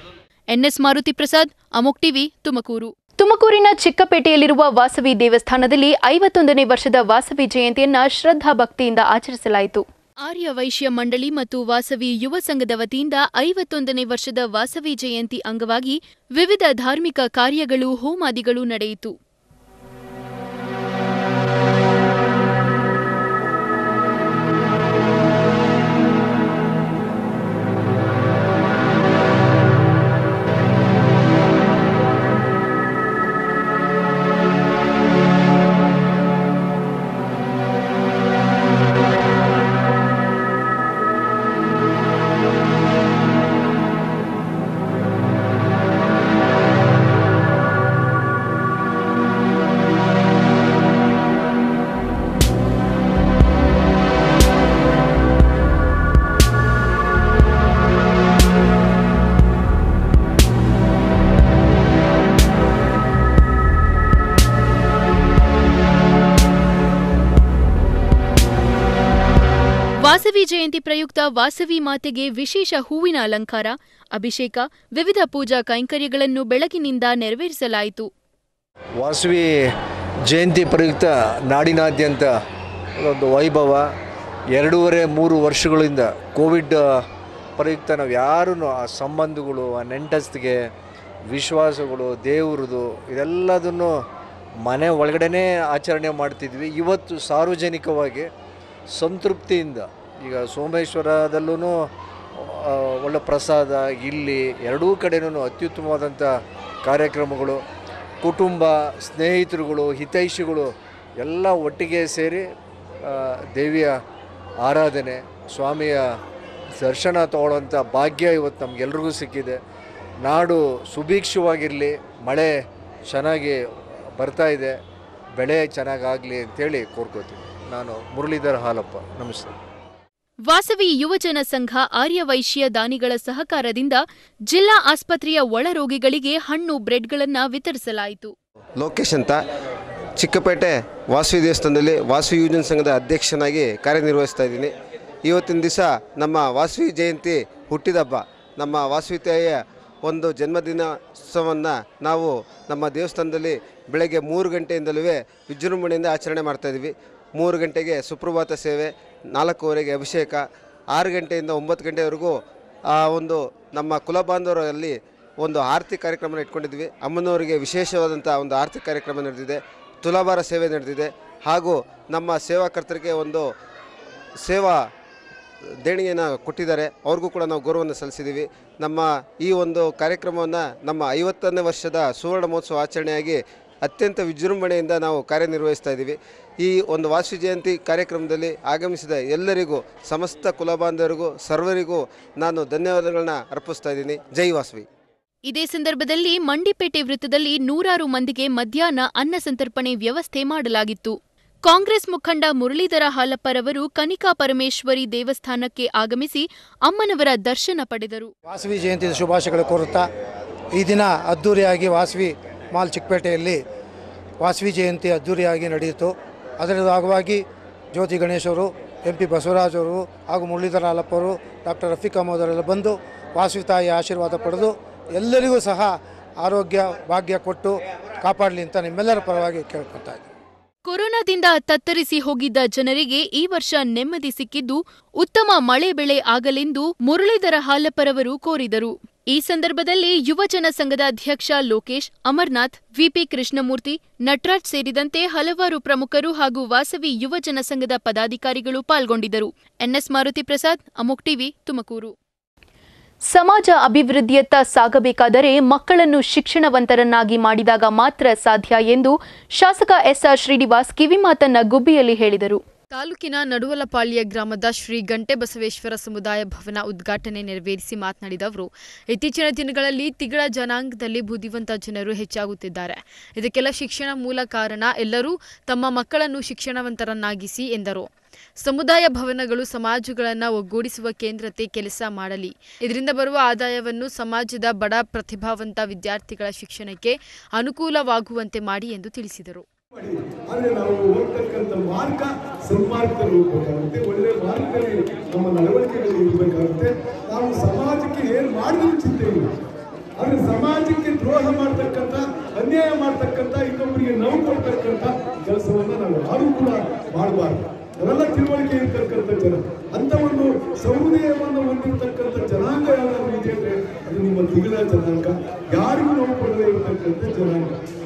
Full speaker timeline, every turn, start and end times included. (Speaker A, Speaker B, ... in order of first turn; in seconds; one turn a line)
Speaker A: 0.5-19.1
Speaker A: 70.0-78.1
Speaker B: 79.0-79.5
Speaker B: 80.3-82.4
Speaker B: 83.0-83.9
Speaker B: 84.5-86.9
Speaker B: 87.6-90.7
Speaker B: 91.3-93.9
Speaker B: 94.6-98.3
Speaker B: 98.9-106.3
Speaker B: 106.8-107.6
Speaker B: 108.2-112.4
Speaker B: 113.0-113.9
Speaker B: 114.6-116.0
Speaker B: 116.8-119.6
Speaker B: 120.2-122.5
Speaker B: 123.1-123.6
Speaker B: 124.2-124.8
Speaker B: 125.3-129.5
Speaker A: 130.5-138.3
Speaker C: 138.8-139.4
Speaker C: 140.2-144.7
Speaker C: 145.2-162.3
Speaker C: 162.9-173.5
Speaker C: 174.4-174.8
Speaker C: 175.8-194.8
Speaker A: 195.4-208.3
Speaker D: 208.5-210.1
Speaker D: 210.7-213.6
Speaker D: 214.4-217.4
Speaker D: 217.9-230.2
Speaker A: 230.8-252.1
Speaker A: 253.3-262.6
Speaker E: 262.9-278.1
Speaker E: 278.6-290.1
Speaker F: 290.0-299.4
Speaker E: 290.6-292.2
Speaker E: 292.8-294.6
Speaker E: 295.4-296.9
Speaker E: 297.4-299.4
Speaker F: 300.2-317.7
Speaker E: 300.4-302.1
Speaker E: 302.8-304.1
Speaker E: 306.0-306.4
Speaker E: 308.2-308.9
Speaker E: 311.3-312.2
Speaker E: 313.2-313.6
Speaker E: 314.2-315.1
Speaker E: 316.0-317.7